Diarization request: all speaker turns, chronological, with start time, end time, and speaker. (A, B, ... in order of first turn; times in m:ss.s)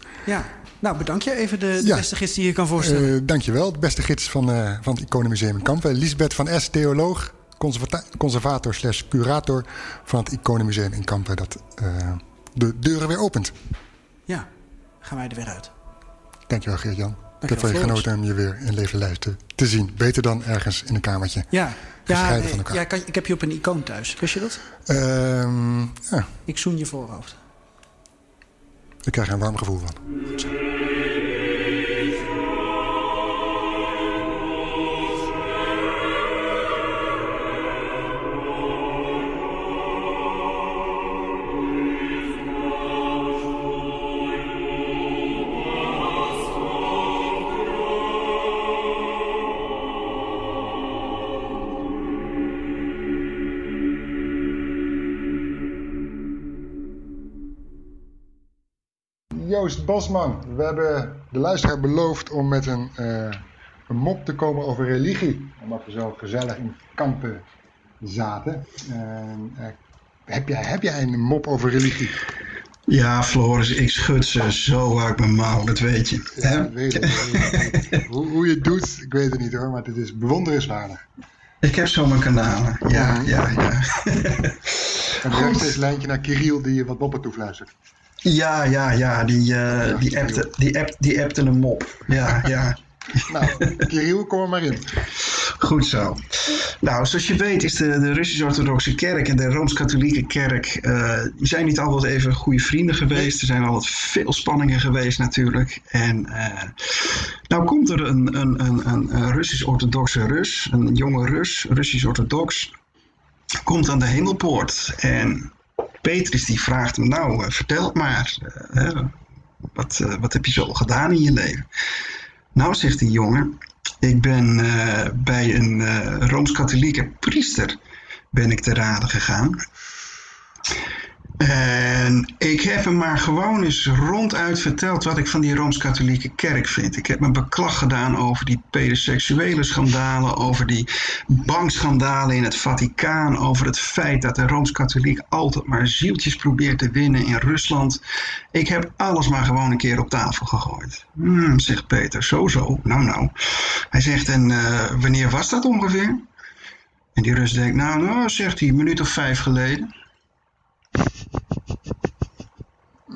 0:00.2-0:03.1 A
0:01.8-0:02.1 B
0:02.8-0:13.5 B
0:15.0-0:15.7 A
0:16.5-0:21.5 B
0:17.4-0:18.1 A
0:21.5-0:24.6 A
0:22.0-0:22.8 B
0:24.9-0:26.3 B
0:26.5-0:27.4 A
0:29.0-0:30.0 B
0:30.3-0:30.6 A
0:59.3-1:07.4 B
1:08.0-1:12.2 B
1:12.9-1:17.9 C
1:16.3-1:21.0 B
1:21.6-1:25.8 C
1:22.9-1:23.7 B
1:25.2-1:27.7 B
1:28.2-1:32.8 C
1:29.7-1:30.5 B
1:33.3-1:35.0 B
1:33.4-1:33.8 C
1:35.2-1:52.7 C
1:53.6-1:59.1 C
1:59.7-2:01.7 C
2:02.5-2:07.8 C
2:08.3-2:09.6 C
2:11.4-2:28.0 C
2:28.5-2:36.2 C
2:37.2-2:39.9 C